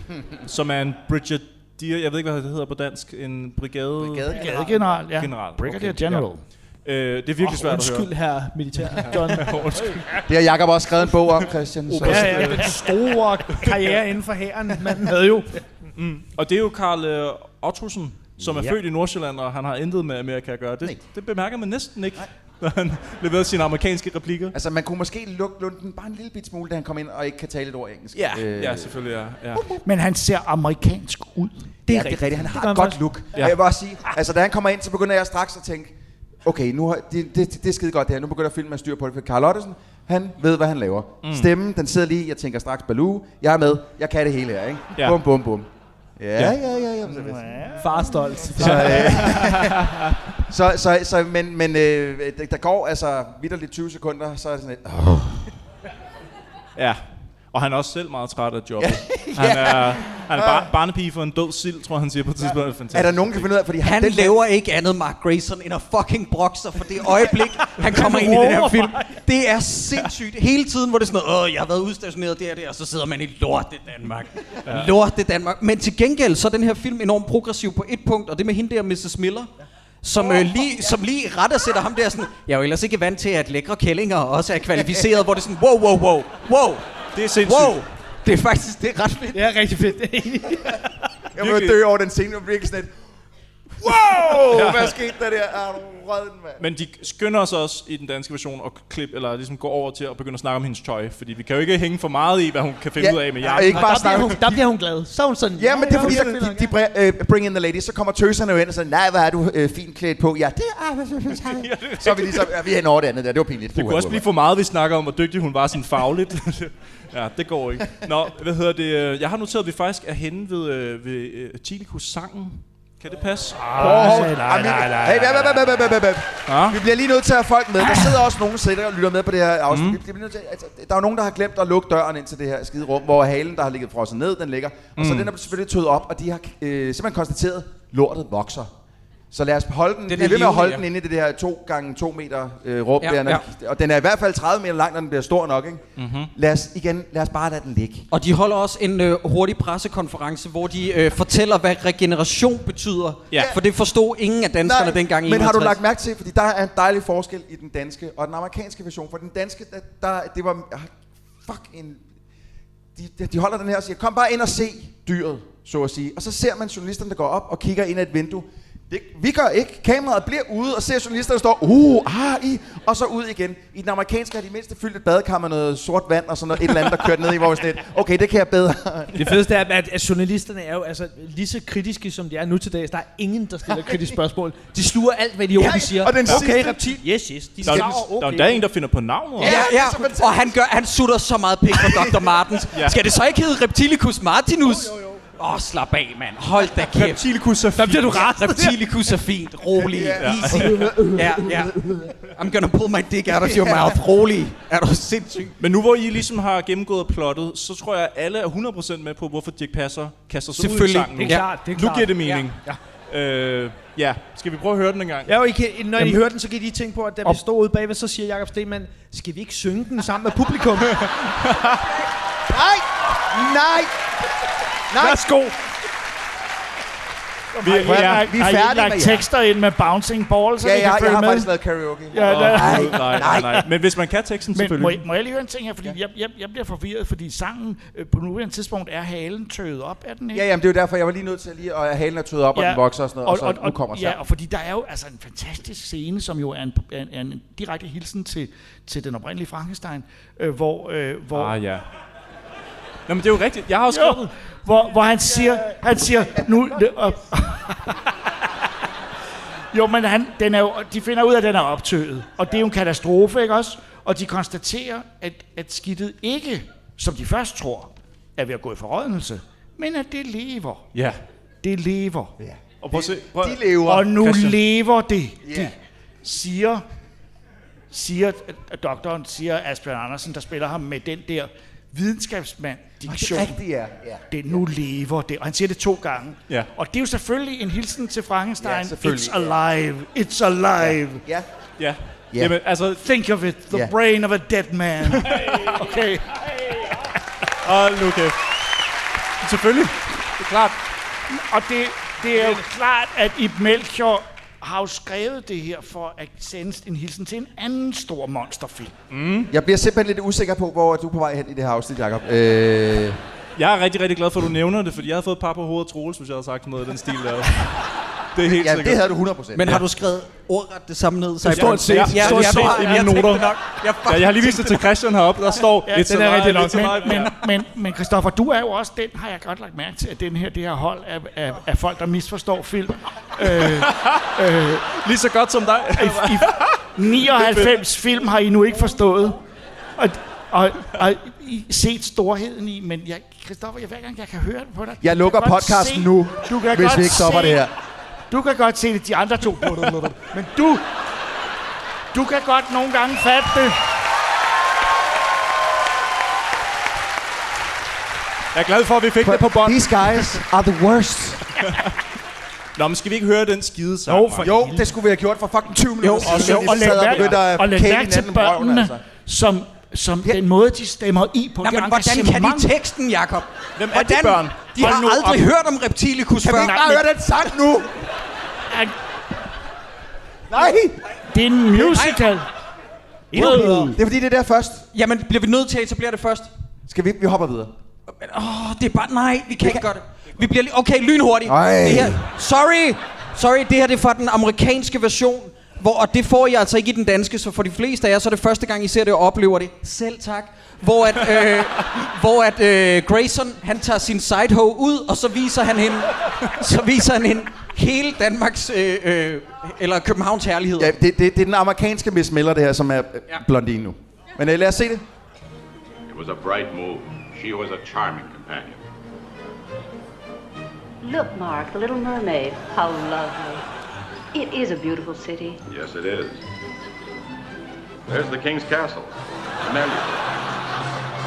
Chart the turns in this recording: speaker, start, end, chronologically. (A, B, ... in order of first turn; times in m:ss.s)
0:00.4-0:04.4 A
0:04.0-0:04.6 B
0:04.3-0:06.4 C
0:05.1-0:06.3 A
0:06.8-0:08.1 A
0:07.4-0:10.2 D
0:08.9-0:10.2 A
0:10.3-0:12.6 B
0:11.9-0:12.9 A
0:12.0-0:15.6 D
0:13.5-0:13.9 A
0:16.0-0:24.6 A
0:24.5-0:28.9 B
0:28.1-0:29.7 A
0:29.8-0:31.5 C
0:31.9-0:33.0 D
0:31.9-0:35.9 B
0:36.4-0:47.7 B
0:41.2-0:41.5 A
0:47.0-0:49.1 C
0:47.8-0:49.2 D
0:48.6-0:49.9 B
0:48.6-0:50.1 A
0:50.5-0:55.5 B
0:56.8-1:03.5 A
0:58.8-1:00.7 B
1:02.9-1:04.4 B
1:03.8-1:19.5 E
1:08.2-1:08.9 D
1:20.0-1:26.8 E
1:24.8-1:25.0 B
1:27.1-1:27.8 A
1:27.4-1:29.4 E
1:29.3-1:30.8 D
1:31.4-1:32.9 B
1:31.4-1:31.8 A
1:33.8-1:36.6 B
1:34.4-1:35.0 A
1:36.6-1:44.4 A
1:43.0-1:44.6 B
1:43.5-1:46.8 D
1:45.6-1:54.2 B
1:46.0-1:46.3 A
1:51.4-1:52.5 A
1:53.7-2:04.3 A
2:03.6-2:05.8 C
2:03.8-2:18.7 B
2:06.5-2:06.8 A
2:09.7-2:10.0 A
2:15.0-2:15.3 A
2:19.3-2:25.8 B
2:20.1-2:20.8 E
2:23.0-2:23.4 E
2:26.0-2:26.3 A
2:26.3-2:28.1 B
2:28.1-2:35.8 E
2:34.6-2:40.9 B
2:41.4-2:42.0 B
2:43.0-2:59.2 B
2:59.2-3:08.6 D
3:05.6-3:07.0 B
3:06.2-3:06.6 A
3:07.6-3:09.7 A
3:09.4-3:10.6 B
3:09.4-3:17.2 E
3:11.8-3:12.3 B
3:16.9-3:18.3 A
3:17.8-3:18.8 D
3:18.1-3:21.7 E
3:19.8-3:21.6 B
3:20.2-3:20.9 A
3:22.3-3:25.6 E
3:23.4-3:24.0 B
3:25.6-3:35.4 A
3:30.6-3:31.5 E
3:31.2-3:32.8 D
3:35.3-3:41.0 D
3:40.9-3:41.9 A
3:42.5-3:43.9 B
3:44.9-3:45.3 B
3:47.6-3:51.5 C
3:47.6-3:48.3 A
3:47.8-3:49.2 B
3:50.6-3:53.7 B
3:52.1-3:53.7 C
3:52.2-3:55.0 A
3:54.6-4:00.5 C
4:00.3-4:04.2 B
4:02.5-4:11.6 C
4:11.3-4:11.8 A
4:13.1-4:14.3 A
4:13.9-4:18.3 C
4:19.7-4:30.9 C
4:30.9-4:31.2 A
4:31.6-4:32.3 C
4:32.4-4:34.1 B
4:32.8-4:34.6 A
4:33.8-4:36.8 C
4:35.4-4:35.7 B
4:37.9-4:43.6 C
4:43.1-4:44.6 B
4:44.3-4:51.2 C
4:48.6-4:49.5 B
4:50.8-4:51.5 B
4:51.8-4:53.0 A
4:53.0-4:57.0 C
4:55.1-4:55.8 A
4:57.6-4:58.4 A
4:59.4-5:00.7 A
5:01.3-5:08.9 C
5:09.1-5:09.5 A
5:09.5-5:13.2 B
5:13.6-5:19.1 A
5:18.4-5:19.8 B
5:19.5-5:24.8 E
5:21.4-5:23.1 D
5:21.5-5:27.4 A
5:25.9-5:34.9 C
5:26.1-5:27.2 D
5:33.4-5:34.3 A
5:34.9-5:37.8 A
5:35.9-5:39.4 C
5:40.0-5:47.7 C
5:45.0-5:47.7 B
5:48.3-5:50.8 C
5:52.1-5:53.8 C
5:58.5-6:00.4 A
5:59.2-6:01.6 B
6:02.8-6:04.5 A
6:04.1-6:04.9 D
6:04.4-6:09.0 B
6:06.0-6:07.0 E
6:06.2-6:07.4 A
6:06.3-6:12.7 C
6:11.6-6:16.8 E
6:13.8-6:14.6 A
6:14.8-6:15.4 C
6:16.4-6:18.0 B
6:16.5-6:17.0 C
6:20.5-6:21.0 B
6:21.3-6:22.5 C
6:23.3-6:24.0 C
6:23.3-6:24.0 D
6:23.4-6:24.9 B
6:24.9-6:26.5 E
6:26.9-6:27.7 B
6:28.1-6:50.9 E
6:31.5-6:32.2 B
6:50.8-6:55.0 B
6:56.1-6:58.8 F
7:01.0-7:03.6 G
7:04.3-7:05.6 G
7:05.6-7:06.4 F
7:08.1-7:10.6 F